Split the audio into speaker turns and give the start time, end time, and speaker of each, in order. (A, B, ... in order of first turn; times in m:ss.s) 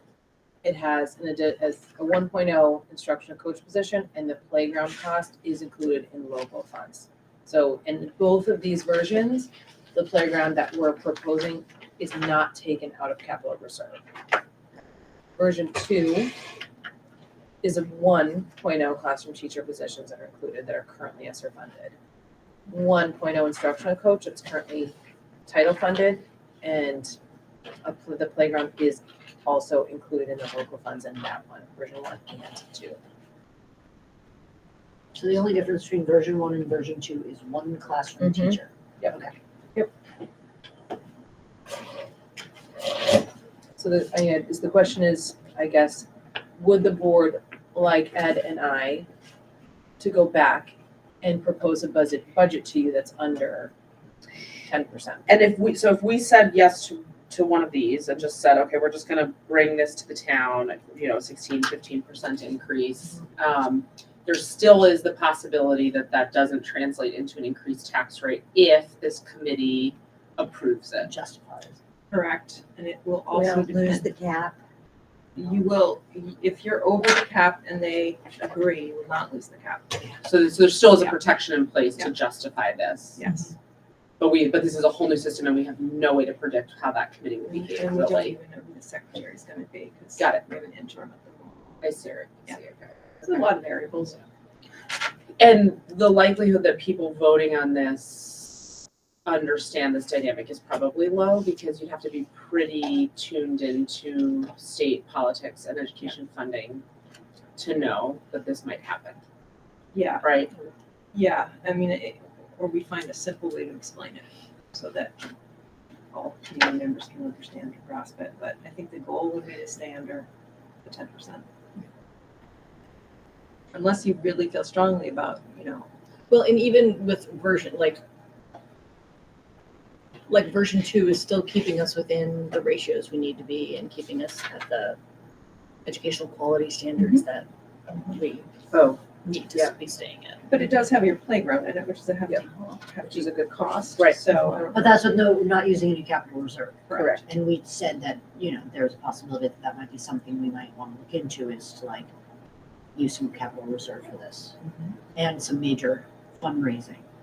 0:00.6-0:14.0 A
0:15.4-0:16.3 A
0:17.6-0:22.0 A
0:22.7-0:25.0 A
0:25.5-0:27.2 A
0:27.8-0:33.0 A
0:35.1-0:39.3 B
0:38.2-0:39.2 A
0:43.8-0:46.1 A
0:46.6-0:49.1 A
0:50.0-0:53.7 A
0:54.7-0:55.3 A
0:55.3-1:11.1 C
1:11.0-1:11.8 B
1:12.1-1:14.1 D
1:13.3-1:14.6 B
1:15.4-1:20.1 D
1:20.2-1:23.2 C
1:23.2-1:23.5 D
1:24.2-1:28.4 C
1:27.5-1:31.8 D
1:30.2-1:30.4 C
1:31.8-1:33.4 C
1:33.2-1:34.2 D
1:35.4-1:46.8 C
1:47.6-1:49.2 C
1:49.9-1:50.4 D
1:50.2-1:50.5 C
1:51.1-1:55.3 D
1:56.1-2:00.3 D
2:00.8-2:01.5 D
2:03.7-2:05.9 D
2:06.3-2:07.8 B
2:10.3-2:15.0 B
2:15.9-2:17.3 B
2:19.6-2:20.4 B
2:20.5-2:25.0 D
2:23.1-2:24.0 A
2:24.7-2:32.1 B
2:26.9-2:27.2 D
2:26.9-2:27.2 C
2:33.0-2:34.6 B
2:35.2-2:37.0 B